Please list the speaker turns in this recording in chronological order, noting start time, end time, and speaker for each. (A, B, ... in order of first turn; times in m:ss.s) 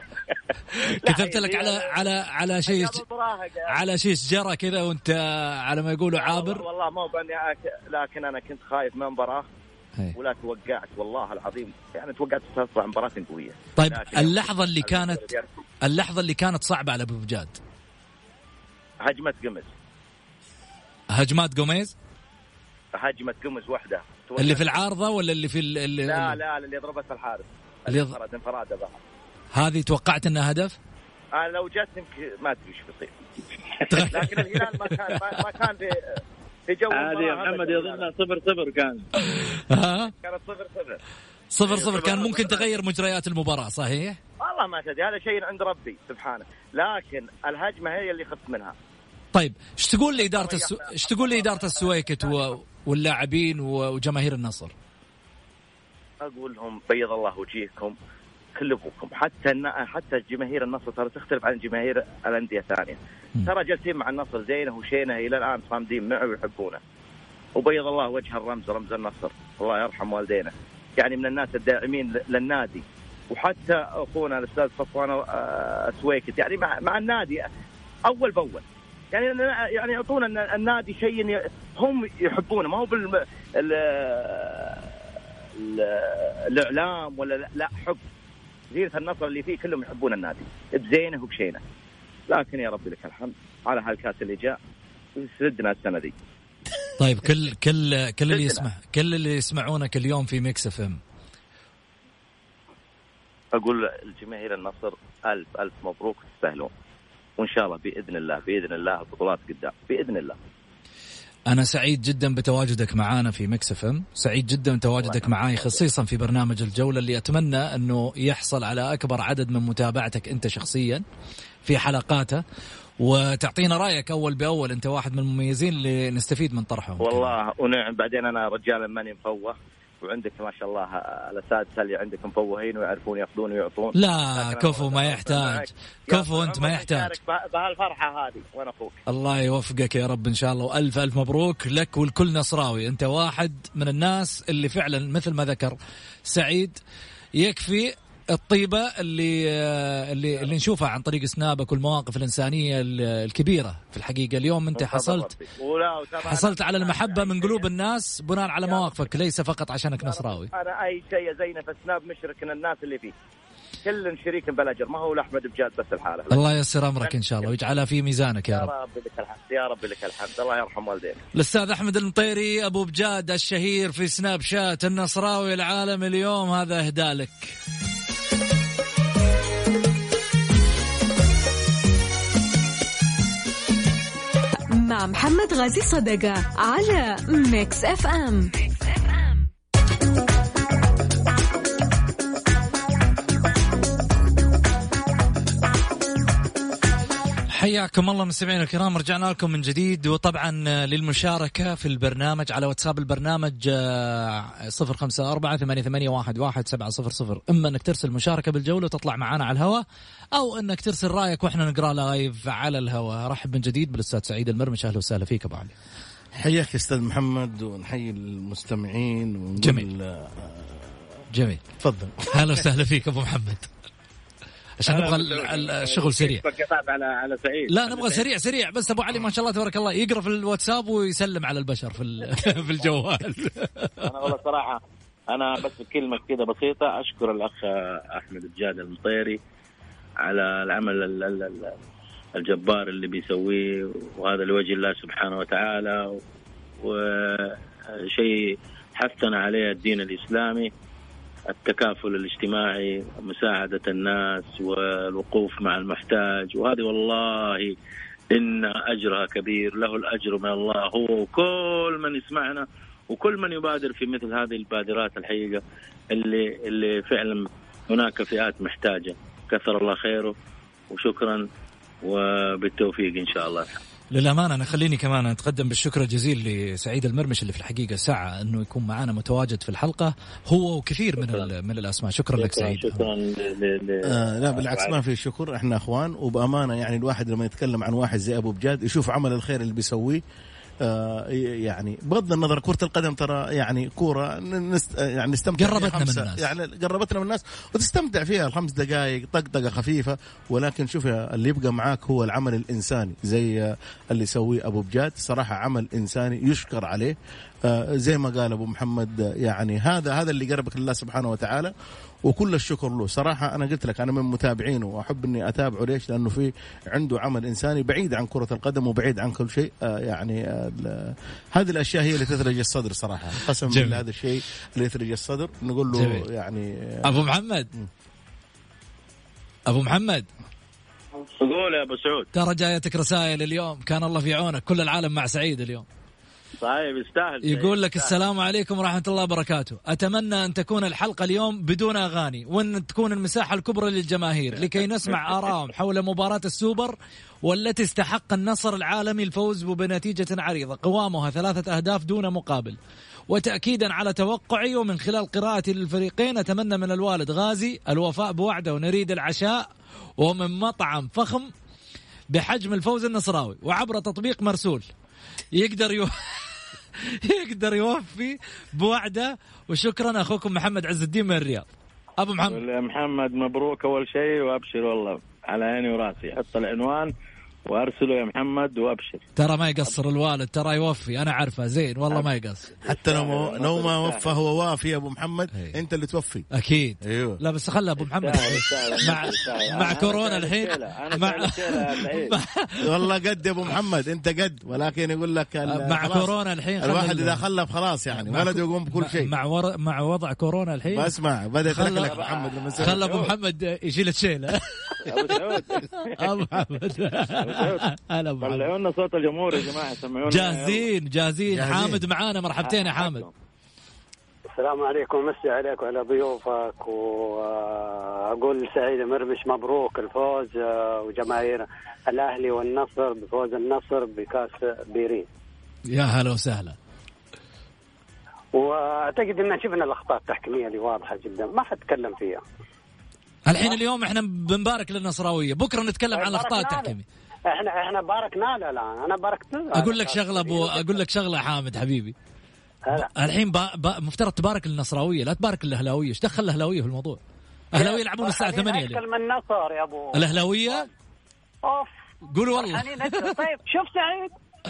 0:00.7-0:03.0 A
0:01.0-0:02.1 B
0:02.6-0:03.7 B
0:03.7-0:06.6 A
0:06.2-0:09.5 B
0:10.2-0:15.5 B
0:13.8-0:15.2 A
0:15.8-0:17.6 A
0:19.0-0:19.7 B
0:21.1-0:22.0 A
0:22.9-0:24.7 B
0:24.4-0:26.4 A
0:26.1-0:29.0 B
0:27.9-0:28.2 A
0:29.5-0:30.8 A
0:31.4-0:33.1 B
0:33.9-0:35.3 A
0:34.0-0:38.1 B
0:36.9-0:39.1 C
0:39.2-0:40.1 A
0:40.1-0:41.0 B
0:41.5-0:44.2 A
0:41.6-0:42.8 B
0:44.4-0:48.8 B
0:49.3-0:54.7 A
0:50.2-0:52.3 B
0:56.2-0:58.0 B
0:58.6-1:06.8 B
1:07.6-1:17.4 B
1:18.1-1:24.9 B
1:25.6-1:28.0 B
1:28.7-1:31.6 B
1:32.3-1:34.6 B
1:35.2-1:36.1 B
1:37.0-1:41.0 A
1:38.3-1:38.6 B
1:43.5-1:46.7 B
1:47.4-1:50.4 B
1:51.5-2:01.0 A
1:55.0-1:55.8 B
2:01.7-2:02.4 A
2:03.0-2:07.4 A
2:07.0-2:19.0 B
2:14.0-2:17.1 A
2:19.1-2:26.8 A
2:27.4-2:35.3 A
2:34.8-2:37.7 B
2:36.2-2:40.5 A
2:38.6-2:39.2 B
2:40.0-2:43.1 B
2:43.8-2:46.5 B
2:46.3-2:48.7 A
2:47.0-2:47.8 B
2:48.5-2:51.2 B
2:51.3-2:57.6 A
3:04.7-3:09.5 D
3:17.5-3:29.8 A
3:30.4-3:35.7 A
3:36.4-3:40.9 E
3:39.6-3:39.9 A
3:41.3-3:41.6 A
3:41.8-3:42.6 E
3:42.3-3:43.7 A
3:44.8-3:46.4 A
3:44.9-3:48.2 C
3:47.7-3:54.0 A
3:54.0-3:54.8 C
3:55.3-3:59.4 C
4:00.2-4:01.8 C
4:02.4-4:06.2 C
4:06.8-4:10.7 C
4:11.5-4:17.7 C
4:18.3-4:25.6 C
4:26.1-4:30.4 C
4:30.9-4:31.5 C
4:32.0-4:33.8 C
4:34.1-4:43.1 A
4:41.2-4:41.5 C
4:42.4-4:45.0 C
4:44.1-4:50.2 E
4:50.8-5:11.7 E
4:55.6-4:56.4 A
5:12.2-5:27.2 E
5:23.7-5:24.0 A
5:25.9-5:26.3 A
5:27.1-5:27.7 A
5:29.7-5:30.3 A
5:31.4-5:32.3 C
5:32.3-5:35.9 A
5:36.6-5:38.1 C
5:37.5-6:01.5 A
5:45.1-5:45.5 C
6:02.3-6:04.8 A
6:05.6-6:06.5 A
6:07.0-6:11.7 A
6:12.2-6:12.6 A
6:12.5-6:17.1 C
6:17.7-6:19.2 C
6:19.4-6:22.7 A
6:22.8-6:24.4 C
6:22.8-6:26.5 E
6:26.5-6:32.8 A
6:27.0-6:27.4 E
6:28.0-6:32.4 C
6:32.8-6:39.3 E
6:35.7-6:37.4 A
6:38.2-6:41.1 A
6:40.9-6:43.2 E
6:41.7-6:42.1 A
6:42.1-6:43.2 C
6:42.8-6:45.1 A
6:45.1-6:46.2 C
6:46.2-6:48.7 A
6:47.4-6:47.9 C
6:48.4-6:50.9 C
6:50.3-6:53.3 A
6:51.5-6:52.0 E
6:52.6-6:53.3 C
6:54.6-7:05.3 F
7:05.9-7:06.8 A
7:08.5-7:12.4 F
7:13.5-7:17.0 A
7:16.1-7:16.9 F
7:17.5-7:21.0 F
7:19.7-7:22.1 A
7:22.9-7:27.2 A
7:27.7-7:29.0 A
7:27.8-7:30.9 F
7:30.1-7:30.9 A
7:31.6-7:31.9 F
7:32.3-7:33.4 A
7:32.5-7:34.3 F